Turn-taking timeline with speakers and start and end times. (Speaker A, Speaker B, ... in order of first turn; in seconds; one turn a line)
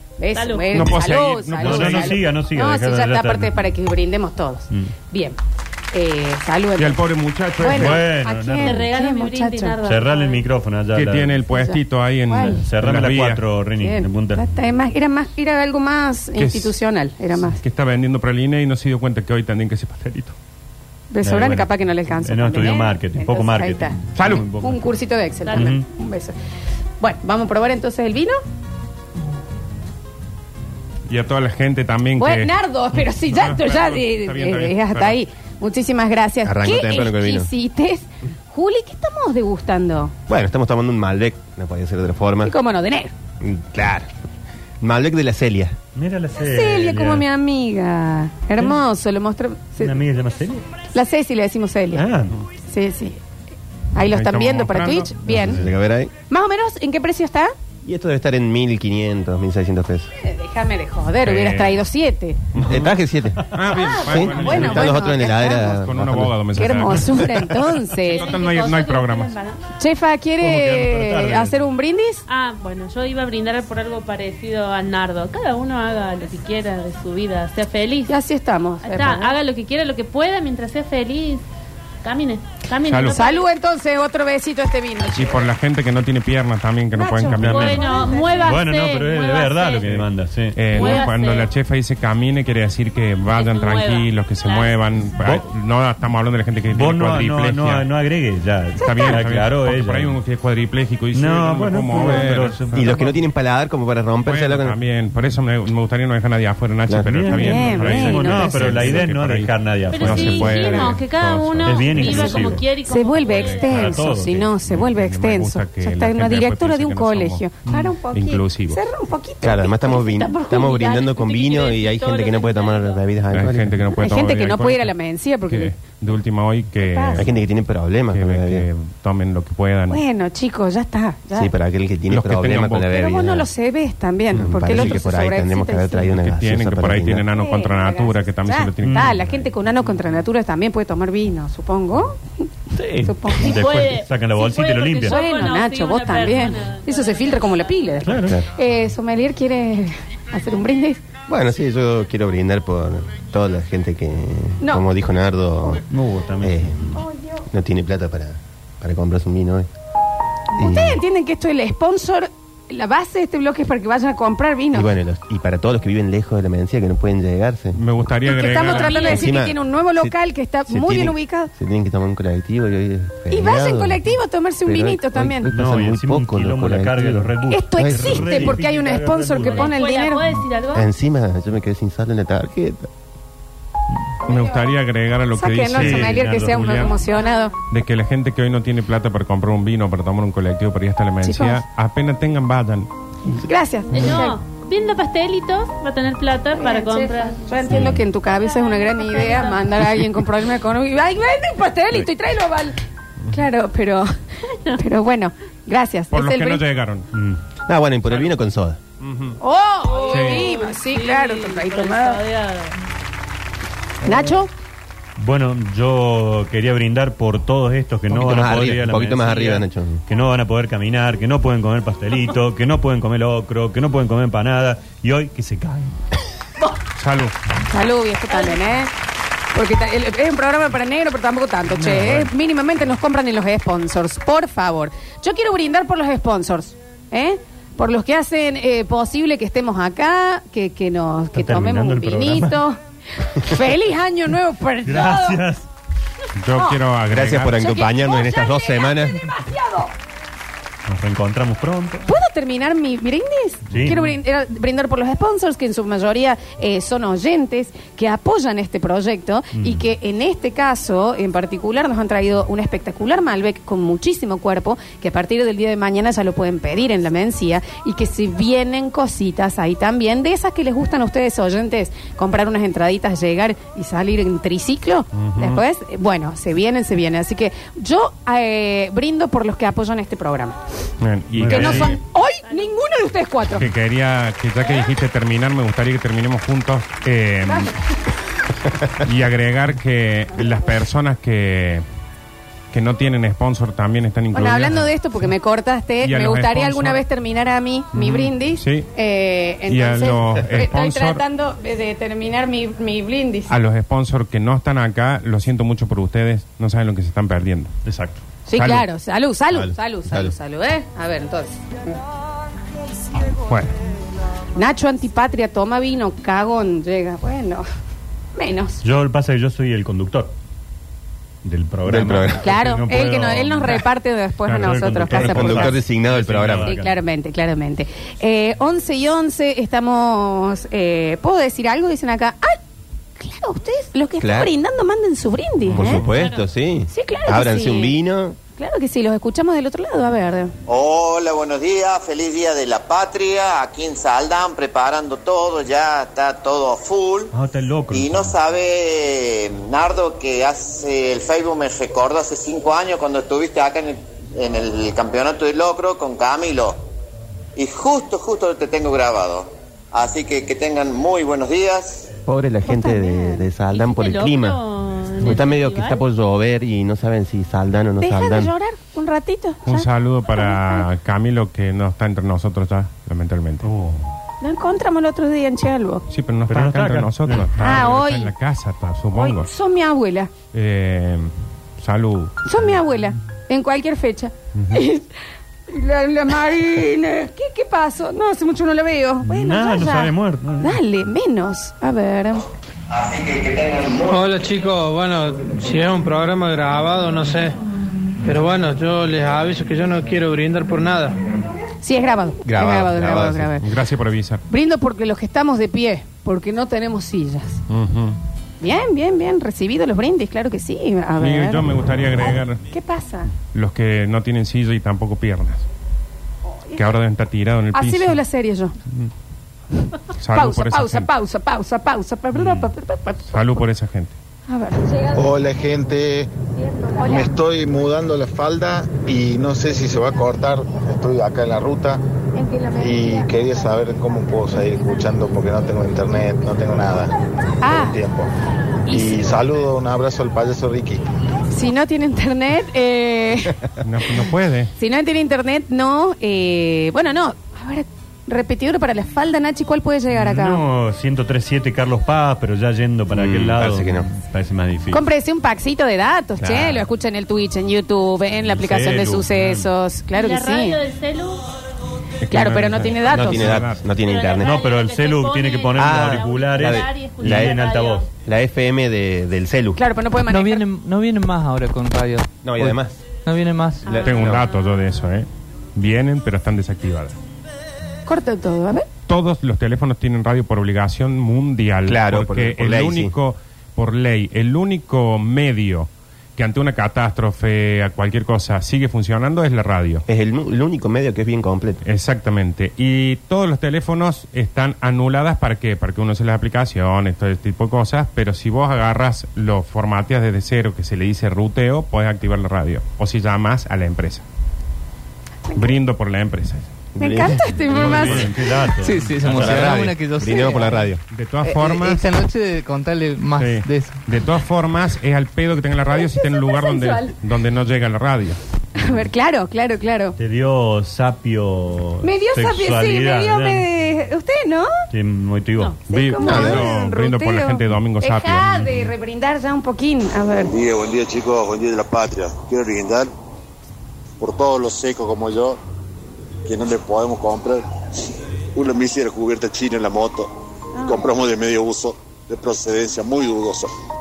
Speaker A: 0.2-5.4
Speaker B: 0.3-0.9
Speaker C: 0.7-2.2
Speaker D: 1.6-3.6
Speaker A: 5.9-7.0
Speaker C: 6.8-8.1
Speaker A: 7.6-9.8
Speaker D: 7.7-8.8
Speaker B: 8.6-10.4
Speaker D: 9.8-11.4
Speaker C: 10.9-13.4
Speaker A: 11.5-11.8
Speaker A: 12.3-12.6
Speaker D: 12.5-14.5
Speaker A: 13.8-17.6
Speaker C: 16.4-16.8
Speaker C: 17.4-20.4
Speaker A: 21.1-24.0
Speaker D: 21.2-24.8
Speaker C: 24.1-24.5
Speaker A: 24.6-26.4
Speaker D: 25.5-25.8
Speaker A: 27.0-28.4
Speaker C: 31.1-32.5
Speaker A: 32.2-40.1
Speaker C: 33.3-35.2
Speaker E: 36.5-37.5
Speaker E: 40.3-42.5
Speaker A: 42.4-43.1
Speaker E: 43.4-44.1
Speaker E: 44.8-45.8
Speaker D: 46.0-47.3
Speaker A: 46.4-50.0
Speaker D: 49.8-50.6
Speaker A: 50.9-52.0
Speaker D: 52.0-52.4
Speaker A: 52.7-53.2
Speaker A: 54.0-55.6
Speaker C: 54.1-55.2
Speaker E: 55.3-56.1
Speaker D: 55.5-55.7
Speaker A: 56.3-57.5
Speaker E: 57.8-60.1
Speaker A: 60.2-62.4
Speaker C: 61.2-61.8
Speaker C: 62.5-62.8
Speaker E: 62.6-63.5
Speaker C: 63.5-67.5
Speaker A: 63.7-65.7
Speaker E: 64.1-66.4
Speaker D: 64.4-64.7
Speaker A: 66.5-68.3
Speaker C: 68.1-69.3
Speaker B: 68.1-69.6
Speaker A: 69.8-72.2
Speaker D: 70.4-71.7
Speaker B: 72.3-78.1
Speaker A: 78.1-79.3
Speaker B: 78.8-81.4
Speaker B: 82.0-83.4
Speaker C: 82.8-83.2
Speaker A: 83.1-85.4
Speaker C: 85.1-87.8
Speaker A: 86.9-88.5
Speaker D: 87.4-87.8
Speaker B: 87.4-89.9
Speaker D: 88.4-90.9
Speaker C: 90.5-97.9
Speaker B: 90.7-91.5
Speaker B: 93.3-94.8
Speaker D: 95.2-95.5
Speaker D: 96.7-100.2
Speaker C: 98.8-103.0
Speaker A: 98.8-99.2
Speaker D: 101.1-103.2
Speaker E: 102.7-104.8
Speaker C: 104.2-112.3
Speaker E: 106.9-107.2
Speaker D: 107.1-110.9
Speaker A: 107.3-108.7
Speaker B: 109.9-114.0
Speaker D: 111.6-112.6
Speaker A: 112.1-112.3
Speaker A: 112.9-121.1
Speaker D: 113.4-114.5
Speaker C: 114.6-117.5
Speaker D: 117.6-117.9
Speaker C: 118.1-118.8
Speaker E: 119.4-123.7
Speaker B: 120.7-123.0
Speaker C: 123.3-125.0
Speaker A: 124.0-125.8
Speaker C: 125.5-127.4
Speaker A: 126.8-127.2
Speaker E: 127.2-128.7
Speaker C: 128.1-130.0
Speaker A: 129.9-131.5
Speaker E: 131.3-133.5
Speaker C: 132.1-133.0
Speaker A: 132.9-136.1
Speaker E: 134.3-137.3
Speaker C: 134.7-135.1
Speaker C: 136.1-139.3
Speaker A: 137.3-142.2
Speaker D: 138.8-139.3
Speaker D: 142.8-145.2
Speaker A: 143.0-143.6
Speaker B: 143.4-147.7
Speaker A: 145.1-151.0
Speaker D: 148.0-148.4
Speaker E: 151.3-155.8
Speaker D: 155.9-157.0
Speaker E: 156.4-156.9
Speaker E: 157.5-159.7
Speaker A: 160.6-164.9
Speaker E: 160.6-161.0
Speaker E: 164.7-167.8
Speaker C: 167.7-169.0
Speaker A: 168.2-171.5
Speaker B: 168.5-169.3
Speaker E: 169.0-170.1
Speaker E: 170.7-174.1
Speaker A: 173.3-175.5
Speaker E: 174.7-178.6
Speaker D: 175.5-179.8
Speaker A: 177.5-180.2
Speaker B: 179.5-180.9
Speaker E: 180.8-182.9
Speaker C: 184.3-186.9
Speaker A: 184.3-184.8
Speaker A: 185.3-187.5
Speaker D: 185.7-186.9
Speaker B: 187.1-187.6
Speaker C: 187.7-192.9
Speaker A: 191.2-191.6
Speaker A: 193.4-194.4
Speaker B: 193.9-199.9
Speaker A: 196.6-202.8
Speaker A: 203.3-204.1
Speaker A: 204.8-206.6
Speaker C: 206.1-207.1
Speaker D: 207.1-207.4
Speaker E: 207.7-208.8
Speaker C: 209.0-209.4
Speaker A: 209.4-212.2
Speaker B: 209.9-212.8
Speaker C: 210.1-210.6
Speaker A: 214.0-214.5
Speaker D: 215.2-226.0
Speaker E: 218.1-220.0
Speaker C: 227.0-227.3
Speaker A: 227.7-228.9
Speaker A: 229.5-242.8
Speaker D: 231.8-232.3
Speaker D: 241.4-242.6
Speaker A: 243.3-245.4
Speaker D: 244.8-245.7
Speaker C: 246.4-247.6
Speaker A: 246.5-246.8
Speaker E: 247.1-249.3
Speaker A: 247.5-249.9
Speaker D: 250.9-252.1
Speaker A: 252.1-280.6
Speaker D: 253.7-254.2
Speaker D: 259.5-259.9
Speaker C: 275.1-275.6
Speaker C: 281.0-282.0
Speaker D: 281.3-282.0
Speaker A: 281.5-283.6
Speaker B: 282.4-282.7
Speaker C: 283.6-287.7
Speaker C: 289.0-291.8
Speaker C: 292.7-294.9
Speaker A: 294.3-303.6
Speaker C: 296.0-297.0
Speaker C: 297.9-298.9
Speaker C: 299.7-301.2
Speaker C: 303.5-307.7
Speaker D: 307.9-308.2
Speaker A: 308.5-311.6
Speaker C: 308.6-308.9
Speaker E: 309.5-310.3
Speaker C: 313.5-313.8
Speaker A: 314.6-317.6
Speaker A: 318.4-318.8
Speaker D: 318.8-320.3
Speaker D: 321.4-323.9
Speaker E: 321.9-322.4
Speaker A: 322.4-325.8
Speaker C: 324.5-324.8
Speaker D: 324.5-327.0
Speaker E: 325.1-326.8
Speaker A: 326.6-332.6
Speaker A: 333.2-336.0
Speaker E: 334.2-334.5
Speaker E: 335.7-338.4
Speaker D: 335.8-336.3
Speaker B: 336.1-336.5
Speaker A: 336.9-337.9
Speaker A: 338.6-340.5
Speaker F: 340.7-347.3
Speaker D: 347.3-348.4
Speaker F: 347.9-356.8
Speaker F: 357.6-362.1
Speaker E: 362.3-364.6
Speaker A: 362.6-363.4
Speaker B: 363.7-366.0
Speaker E: 365.2-368.5
Speaker A: 368.0-370.8
Speaker C: 369.6-373.7
Speaker D: 373.6-374.1
Speaker A: 374.4-376.0
Speaker C: 376.1-379.5
Speaker D: 376.5-377.9
Speaker A: 377.6-378.3
Speaker A: 379.1-380.3
Speaker C: 380.5-382.4
Speaker A: 382.4-385.1
Speaker A: 385.7-392.4
Speaker D: 389.2-390.8
Speaker F: 392.9-394.2
Speaker G: 394.0-397.6
Speaker G: 398.2-401.2
Speaker A: 401.8-403.7
Speaker E: 402.4-403.5
Speaker C: 403.6-404.4
Speaker A: 404.5-407.6
Speaker C: 407.7-408.2
Speaker A: 408.6-413.3
Speaker C: 411.2-412.6
Speaker C: 413.5-415.7
Speaker C: 416.8-418.2
Speaker A: 417.7-418.8
Speaker C: 420.2-421.1
Speaker A: 420.3-423.6
Speaker D: 422.3-422.7
Speaker C: 423.3-424.1
Speaker A: 424.5-424.9
Speaker H: 425.1-426.3
Speaker A: 426.9-427.3
Speaker H: 427.0-432.0
Speaker H: 432.7-437.1
Speaker A: 437.6-438.0
Speaker H: 437.6-438.3
Speaker A: 438.9-439.4
Speaker H: 438.9-441.0
Speaker A: 441.5-443.6
Speaker C: 443.8-444.7
Speaker A: 444.8-450.6
Speaker D: 450.1-455.0
Speaker E: 453.1-454.1
Speaker A: 454.9-460.8
Speaker E: 456.4-456.8
Speaker D: 458.5-459.7
Speaker B: 460.1-461.4
Speaker C: 462.2-463.8
Speaker A: 462.3-463.6
Speaker E: 463.1-464.6
Speaker B: 464.0-468.1
Speaker D: 464.4-468.1
Speaker E: 465.8-467.6
Speaker E: 468.3-469.8
Speaker A: 469.8-470.6
Speaker I: 470.3-474.0
Speaker E: 472.4-473.0
Speaker B: 473.8-474.6
Speaker E: 473.9-474.4
Speaker C: 474.0-477.1
Speaker A: 478.1-478.9
Speaker C: 479.1-490.1
Speaker E: 481.9-483.1
Speaker E: 490.1-491.8
Speaker C: 491.8-504.2
Speaker C: 505.6-506.7
Speaker E: 506.9-508.2
Speaker A: 507.0-508.3
Speaker D: 507.7-509.8
Speaker I: 508.8-514.0
Speaker E: 509.3-511.0
Speaker C: 511.1-512.0
Speaker C: 513.4-518.4
Speaker A: 515.9-517.1
Speaker A: 518.8-520.1
Speaker D: 520.2-523.7
Speaker A: 522.0-524.7
Speaker D: 524.9-525.8
Speaker A: 525.9-530.5
Speaker C: 525.9-528.5
Speaker E: 526.2-526.7
Speaker J: 530.4-533.1
Speaker J: 534.2-535.6
Speaker J: 536.4-537.7
Speaker J: 538.6-543.7